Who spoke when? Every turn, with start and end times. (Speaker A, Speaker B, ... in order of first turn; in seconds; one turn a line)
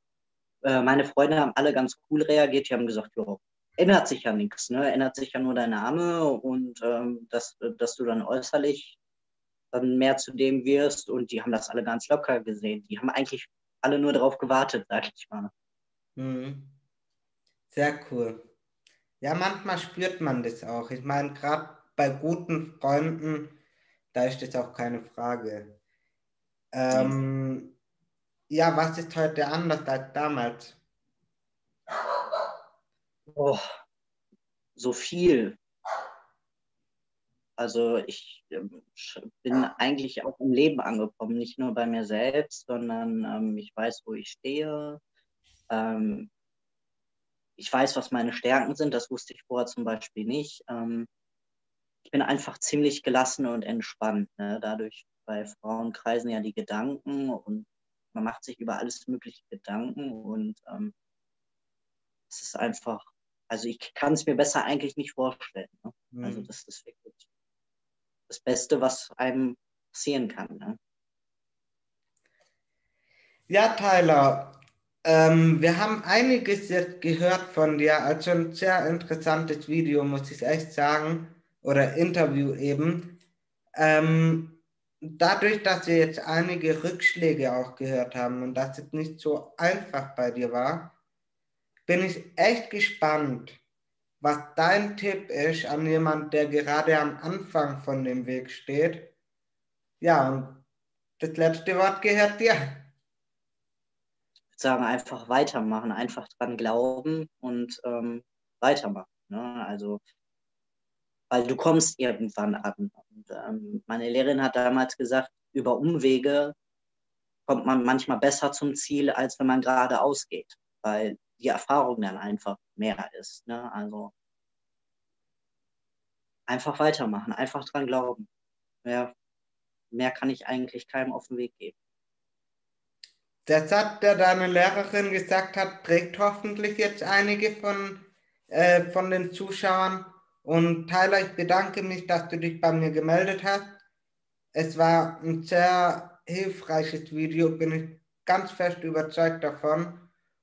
Speaker A: 0.6-9.0
Speaker A: 9.7-15.5
Speaker B: 16.2-16.7
Speaker B: 17.7-18.4
Speaker B: 19.2-23.6
Speaker B: 24.1-25.8
Speaker B: 26.7-27.8
Speaker A: 26.9-27.2
Speaker B: 28.5-30.8
Speaker A: 33.4-33.7
Speaker A: 34.8-35.6
Speaker A: 37.6-45.0
Speaker A: 45.7-46.3
Speaker A: 47.6-51.1
Speaker A: 52.1-60.9
Speaker A: 62.3-67.3
Speaker B: 66.1-66.5
Speaker A: 68.3-70.8
Speaker B: 73.5-83.2
Speaker B: 83.8-84.6
Speaker B: 85.2-90.9
Speaker B: 91.9-93.6
Speaker B: 94.2-99.1
Speaker B: 100.0-100.6
Speaker B: 101.2-102.9
Speaker A: 104.6-110.0
Speaker A: 111.3-116.5
Speaker A: 117.5-124.1
Speaker A: 126.5-128.3
Speaker A: 128.8-129.1
Speaker A: 129.9-131.8
Speaker B: 133.5-143.8
Speaker B: 144.6-150.1